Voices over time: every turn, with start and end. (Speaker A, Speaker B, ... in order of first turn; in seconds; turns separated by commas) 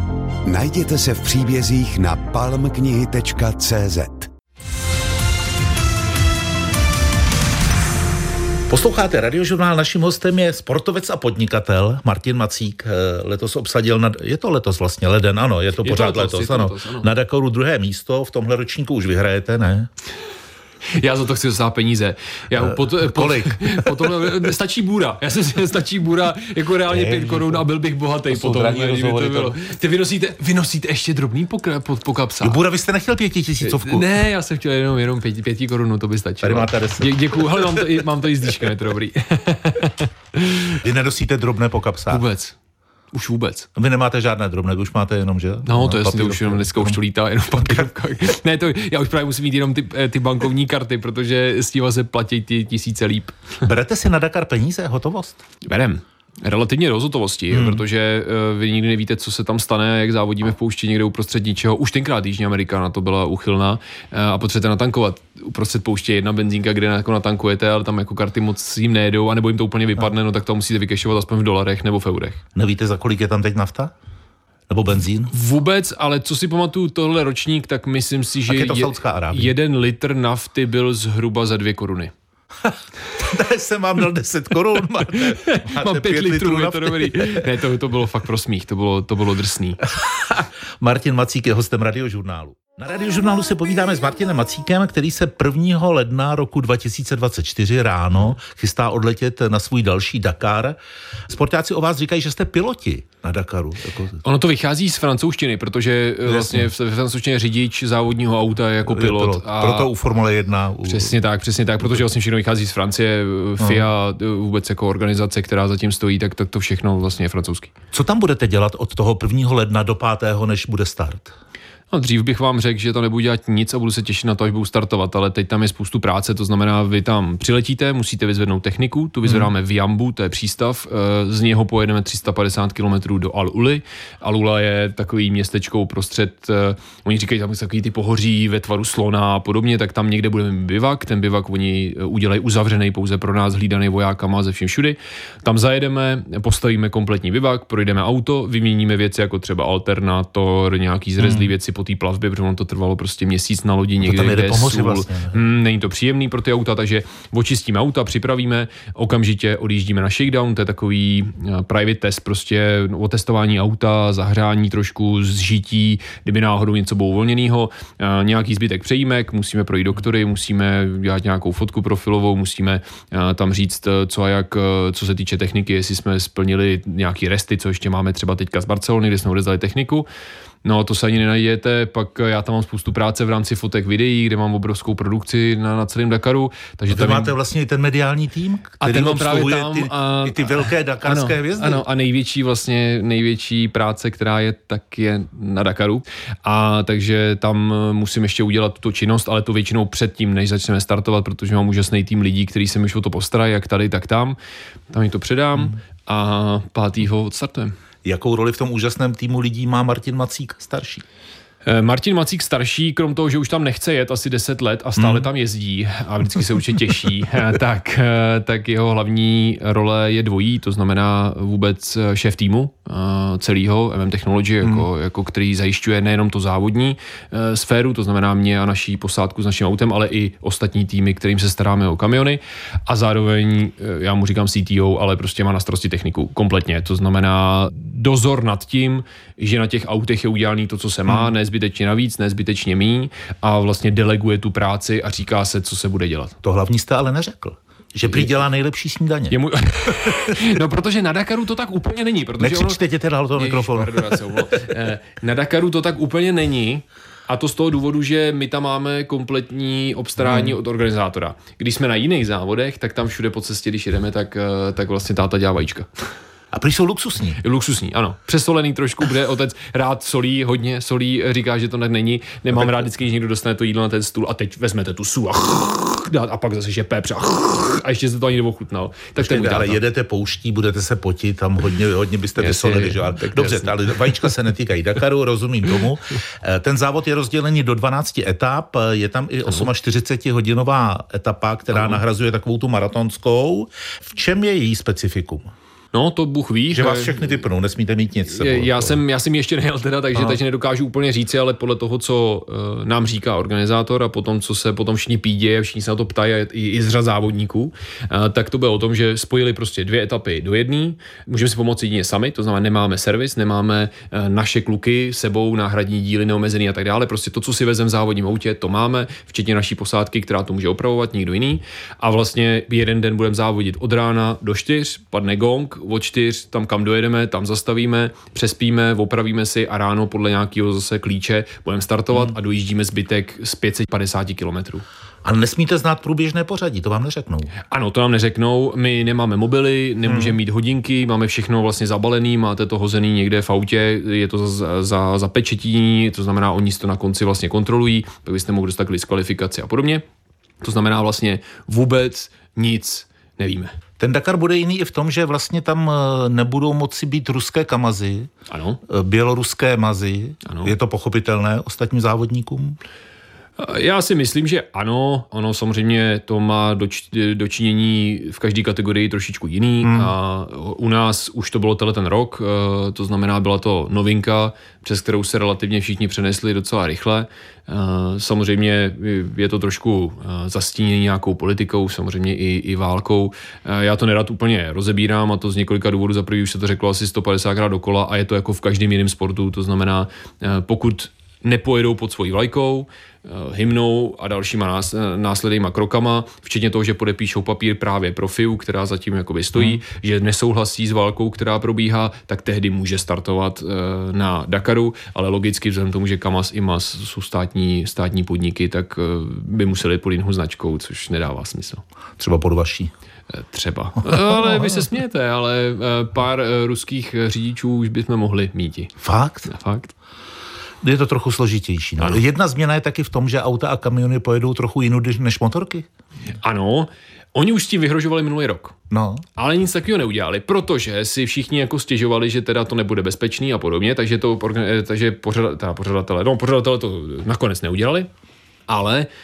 Speaker A: 0.4-4.3, Speaker B: 8.7-19.9, Speaker C: 15.8-17.1, Speaker C: 20.9-32.6, Speaker B: 22.5-24.5, Speaker B: 26.9-27.6, Speaker B: 28.3-29.6, Speaker B: 32.4-34.1, Speaker C: 33.6-40.8, Speaker B: 36.4-38.0, Speaker B: 40.8-42.2, Speaker C: 42.1-42.5, Speaker C: 43.1-43.7, Speaker B: 43.8-47.0, Speaker C: 45.6-53.6, Speaker B: 47.6-47.9, Speaker B: 53.6-55.4, Speaker C: 55.6-72.4, Speaker B: 57.5-57.8, Speaker B: 72.5-73.9, Speaker B: 74.7-75.3, Speaker C: 75.3-82.1, Speaker B: 78.5-79.5, Speaker B: 82.6-87.5, Speaker C: 85.2-89.8, Speaker B: 89.9-100.8, Speaker B: 101.3-104.2, Speaker C: 104.2-109.9, Speaker B: 106.2-106.7, Speaker B: 108.8-111.1, Speaker C: 110.8-117.7, Speaker B: 113.6-113.8, Speaker B: 117.9-121.3, Speaker C: 121.9-180.1, Speaker B: 129.2-129.5, Speaker B: 151.2-151.5, Speaker B: 154.0-155.4, Speaker C: 180.6-187.3, Speaker B: 186.9-191.8, Speaker C: 188.8-204.4, Speaker C: 204.9-207.8, Speaker B: 208.0-211.0, Speaker C: 211.6-246.3, Speaker B: 215.0-215.3, Speaker B: 246.4-250.4, Speaker C: 249.3-252.8, Speaker B: 252.4-254.4, Speaker C: 253.3-265.9, Speaker B: 260.2-260.6, Speaker B: 266.5-267.4, Speaker C: 267.4-279.8, Speaker B: 272.5-272.9, Speaker B: 279.2-295.5, Speaker C: 282.4-284.1, Speaker C: 291.7-292.0, Speaker C: 295.9-297.2, Speaker B: 296.7-299.0, Speaker C: 298.3-334.8, Speaker B: 300.1-300.4, Speaker B: 335.2-337.5, Speaker C: 337.7-350.0, Speaker B: 340.0-340.4, Speaker C: 350.6-353.7, Speaker B: 354.0-358.3, Speaker C: 358.5-358.8, Speaker B: 358.9-362.8, Speaker C: 360.4-360.7, Speaker C: 363.6-411.8, Speaker B: 369.8-370.1, Speaker B: 399.5-399.8, Speaker B: 412.2-412.9, Speaker C: 413.3-418.9, Speaker B: 414.0-414.9, Speaker B: 419.0-419.5, Speaker C: 419.4-419.9, Speaker B: 420.8-425.9, Speaker C: 426.4-428.7, Speaker B: 428.9-429.2, Speaker C: 429.4-438.1, Speaker C: 438.7-439.1